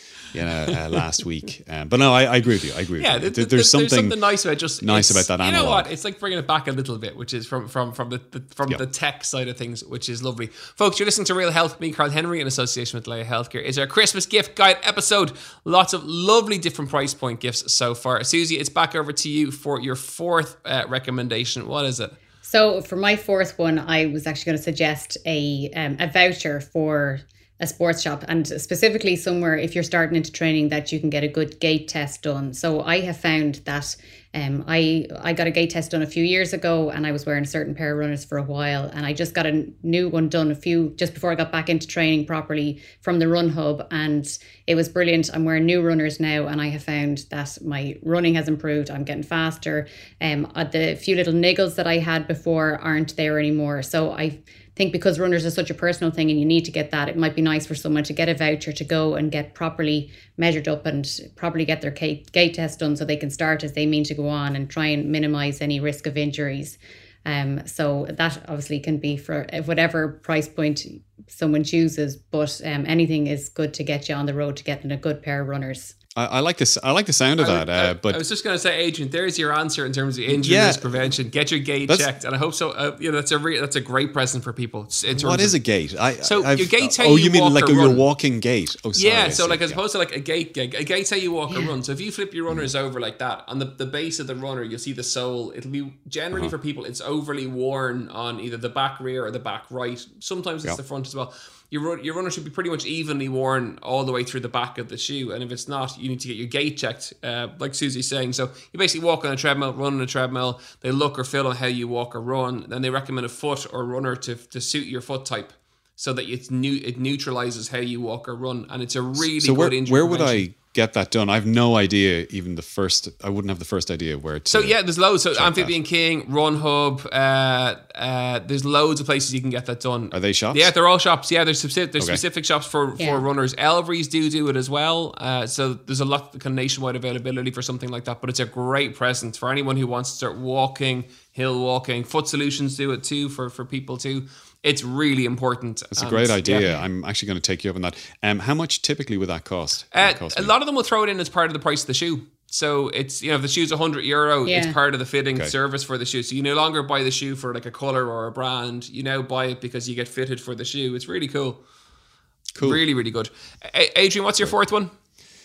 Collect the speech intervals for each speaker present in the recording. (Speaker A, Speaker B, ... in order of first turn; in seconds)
Speaker A: 0.3-4.2, 4.8-5.9, 76.2-78.2, 80.3-81.1, 85.1-89.8, 119.2-124.8, 125.3-125.7, 130.1-130.7, 145.9-150.5, 162.5-162.8
Speaker B: 3.0-22.1, 77.4-85.5, 86.2-88.0, 89.0-120.5, 124.5-146.8, 149.9-161.6, 162.6-164.9
Speaker C: 22.4-75.9, 133.0-133.2, 154.4-154.8